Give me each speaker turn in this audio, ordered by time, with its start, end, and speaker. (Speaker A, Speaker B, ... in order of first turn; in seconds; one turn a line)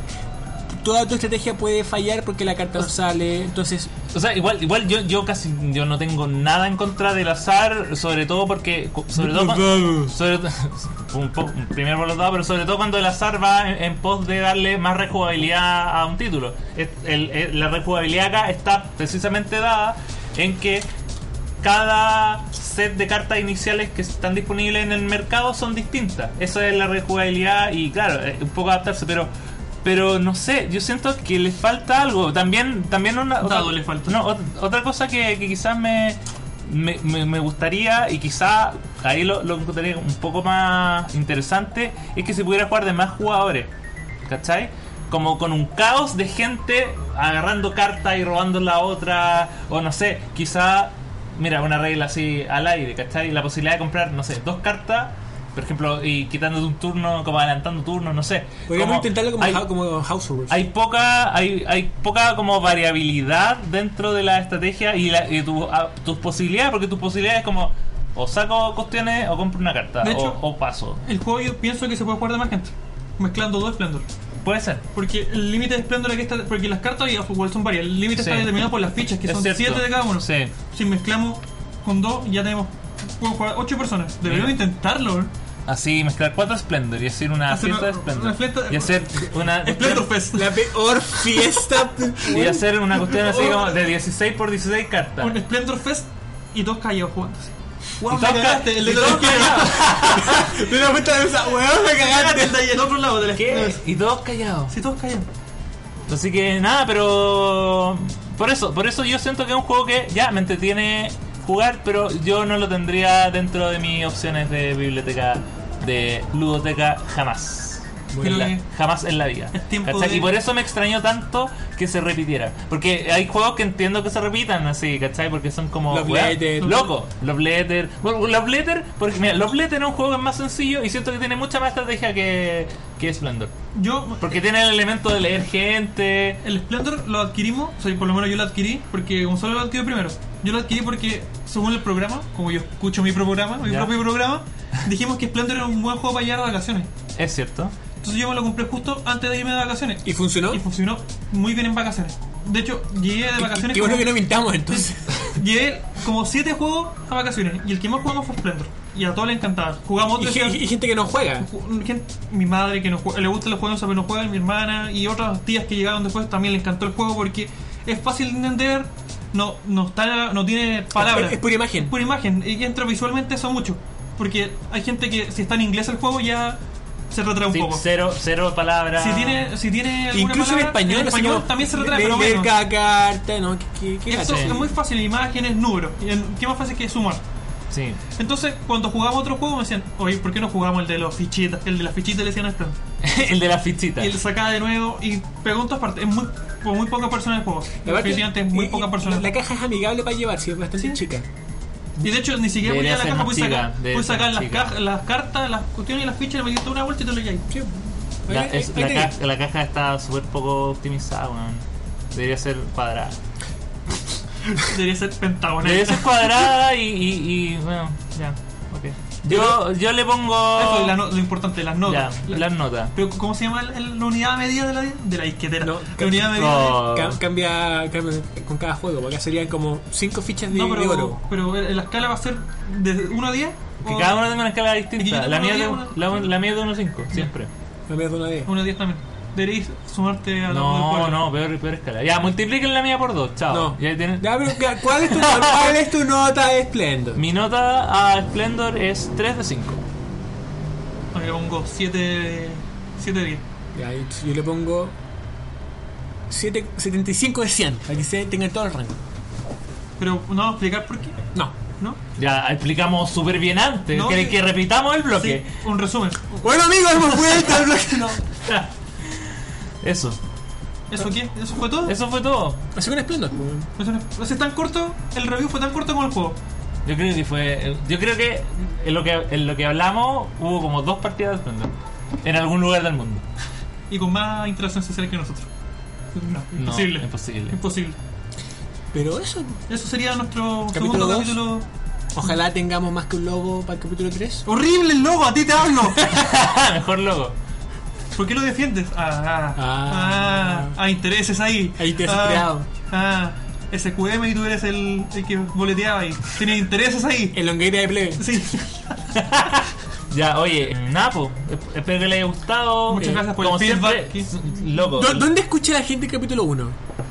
Speaker A: 0.7-3.9
Speaker B: 4.1-20.9
Speaker A: 9.1-10.1
Speaker B: 21.6-29.3
Speaker B: 29.8-43.7
Speaker C: 33.4-34.2
Speaker B: 44.2-59.6
Speaker A: 58.7-60.6
Speaker B: 60.5-71.0
Speaker C: 70.0-70.4
Speaker C: 71.0-74.0
Speaker B: 74.4-74.8
Speaker C: 74.9-85.3
Speaker B: 78.2-78.6
Speaker B: 79.2-80.5
Speaker B: 84.2-84.6
Speaker B: 85.7-90.1
Speaker C: 87.5-90.5
Speaker A: 90.3-92.7
Speaker B: 92.2-95.4
Speaker C: 93.0-93.8
Speaker C: 95.2-100.2
Speaker B: 98.0-100.5
Speaker A: 99.0-102.6
Speaker C: 101.8-103.8
Speaker B: 103.3-104.8
Speaker C: 104.7-105.3
Speaker B: 106.1-133.5
Speaker A: 118.1-118.5
Speaker C: 118.2-118.6
Speaker C: 119.5-120.3
Speaker A: 125.9-126.8
Speaker C: 126.6-126.9
Speaker C: 133.7-134.2
Speaker B: 134.2-136.4
Speaker C: 136.4-146.9
Speaker B: 143.6-143.9
Speaker B: 147.2-147.7
Speaker C: 148.0-154.1
Speaker A: 150.0-150.6
Speaker A: 153.4-155.2
Speaker C: 154.7-160.6
Speaker A: 160.2-161.5
Speaker C: 161.4-176.6
Speaker A: 170.9-171.9
Speaker C: 177.1-177.8
Speaker B: 177.5-179.5
Speaker C: 179.0-182.5
Speaker A: 180.1-184.7
Speaker C: 184.1-187.2
Speaker B: 184.2-184.6
Speaker B: 187.7-188.0
Speaker C: 188.2-192.8
Speaker B: 193.0-194.1
Speaker C: 194.0-199.3
Speaker A: 197.8-201.3
Speaker C: 202.0-207.5
Speaker B: 202.6-204.7
Speaker A: 207.5-209.1
Speaker B: 208.3-213.2
Speaker C: 214.5-216.5
Speaker B: 215.6-221.0
Speaker A: 219.2-219.6
Speaker C: 220.6-226.8
Speaker B: 221.9-222.9
Speaker A: 225.6-231.2
Speaker B: 226.3-227.2
Speaker C: 230.5-234.2
Speaker B: 233.8-237.5
Speaker C: 235.0-236.3
Speaker A: 237.9-238.5
Speaker C: 238.4-241.2
Speaker B: 240.5-245.8
Speaker A: 243.5-247.2
Speaker B: 247.2-249.8
Speaker C: 251.1-253.4
Speaker A: 253.7-254.9
Speaker A: 256.3-259.0
Speaker C: 260.0-261.2
Speaker B: 262.2-265.4
Speaker C: 263.9-264.4
Speaker C: 265.1-266.4
Speaker A: 266.4-268.2
Speaker B: 268.5-270.2
Speaker C: 270.9-271.9
Speaker B: 271.8-272.6
Speaker A: 272.7-273.7
Speaker C: 273.8-276.4
Speaker B: 276.9-283.2
Speaker C: 283.9-285.5
Speaker C: 286.1-288.0
Speaker B: 286.5-287.6
Speaker A: 288.9-289.6
Speaker C: 289.7-291.6
Speaker A: 290.7-291.4
Speaker A: 292.1-294.4
Speaker C: 294.4-296.1
Speaker B: 296.0-297.4
Speaker C: 298.1-307.4
Speaker A: 299.6-300.8
Speaker A: 301.8-302.7
Speaker A: 307.3-308.4
Speaker C: 308.2-309.0
Speaker B: 309.1-315.3
Speaker C: 312.9-314.3
Speaker A: 313.0-313.2
Speaker A: 314.9-316.8